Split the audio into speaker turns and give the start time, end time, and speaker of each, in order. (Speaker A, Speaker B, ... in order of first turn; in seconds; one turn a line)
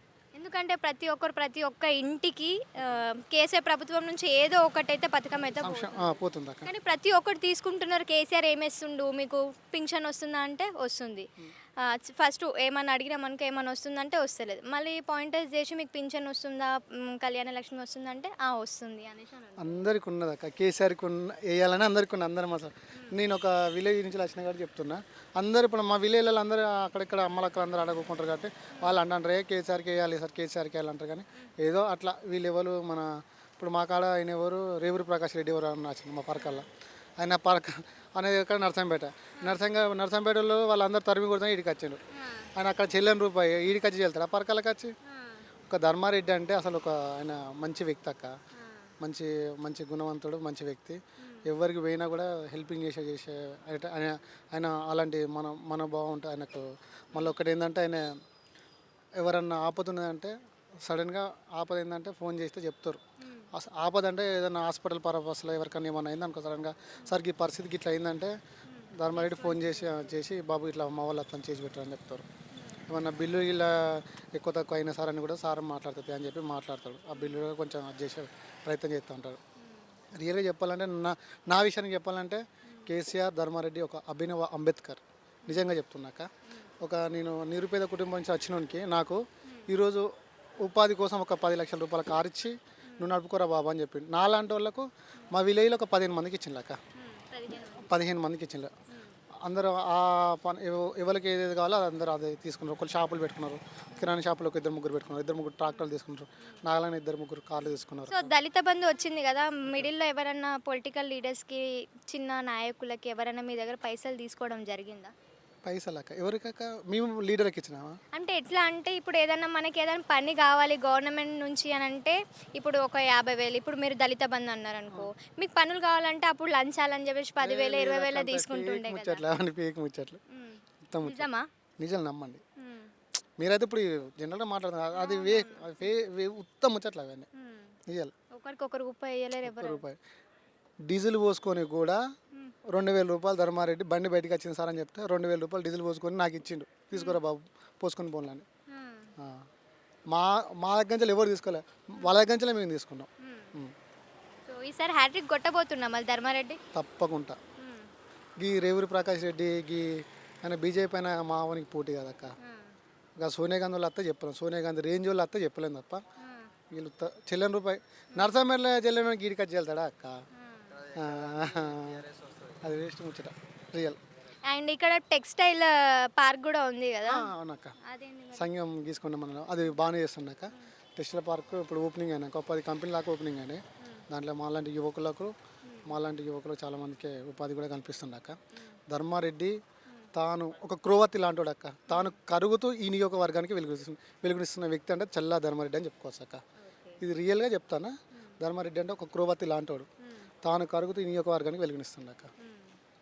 Speaker A: 0.3-11.3
Speaker B: 5.3-6.7
Speaker A: 11.8-19.9
Speaker B: 19.6-36.7
Speaker A: 22.9-23.2
Speaker A: 28.7-29.0
Speaker A: 36.4-36.7
Speaker B: 37.2-42.0
Speaker A: 42.1-42.5
Speaker B: 42.6-44.9
Speaker A: 45.1-45.5
Speaker B: 45.7-48.3
Speaker A: 48.5-48.9
Speaker B: 49.0-58.1
Speaker A: 51.2-51.5
Speaker B: 59.2-60.3
Speaker B: 60.8-63.0
Speaker A: 63.2-63.5
Speaker B: 63.5-68.3
Speaker A: 68.7-70.1
Speaker B: 69.0-72.2
Speaker A: 72.5-72.8
Speaker B: 72.9-79.4
Speaker A: 77.1-77.5
Speaker A: 79.6-80.0
Speaker B: 80.2-86.3
Speaker A: 82.7-82.9
Speaker A: 85.5-85.7
Speaker B: 86.8-90.1
Speaker A: 89.5-89.7
Speaker B: 90.6-96.8
Speaker A: 92.9-93.2
Speaker A: 97.0-97.9
Speaker B: 97.8-98.7
Speaker A: 98.9-99.2
Speaker B: 99.4-108.3
Speaker A: 105.7-106.6
Speaker A: 107.6-115.1
Speaker B: 115.6-117.9
Speaker A: 118.1-129.2
Speaker B: 127.4-130.2
Speaker A: 130.3-131.4
Speaker B: 130.8-131.3
Speaker B: 131.8-132.4
Speaker A: 132.6-132.9
Speaker B: 133.4-137.3
Speaker A: 134.9-135.8
Speaker A: 137.3-137.7
Speaker B: 137.9-138.1
Speaker A: 138.3-139.8
Speaker B: 139.4-140.0
Speaker B: 140.9-142.0
Speaker B: 142.7-148.4
Speaker A: 146.9-147.2
Speaker A: 148.7-149.1
Speaker B: 149.2-149.4
Speaker B: 150.1-153.7
Speaker A: 153.2-153.6
Speaker A: 154.4-156.6
Speaker B: 156.7-157.4
Speaker A: 157.6-157.9
Speaker B: 158.4-162.3
Speaker A: 162.4-162.8
Speaker B: 163.2-166.0
Speaker A: 166.2-166.5
Speaker B: 166.7-170.2
Speaker A: 170.3-170.9
Speaker B: 170.9-172.1
Speaker B: 172.6-174.0
Speaker A: 174.5-177.3
Speaker B: 177.1-177.8
Speaker A: 177.8-178.5
Speaker B: 178.3-185.3
Speaker A: 185.6-185.9
Speaker B: 185.9-189.6
Speaker B: 190.1-196.4
Speaker A: 191.9-192.2
Speaker A: 196.6-197.0
Speaker B: 197.0-199.9
Speaker A: 200.0-200.3
Speaker B: 200.4-202.3
Speaker A: 202.4-202.8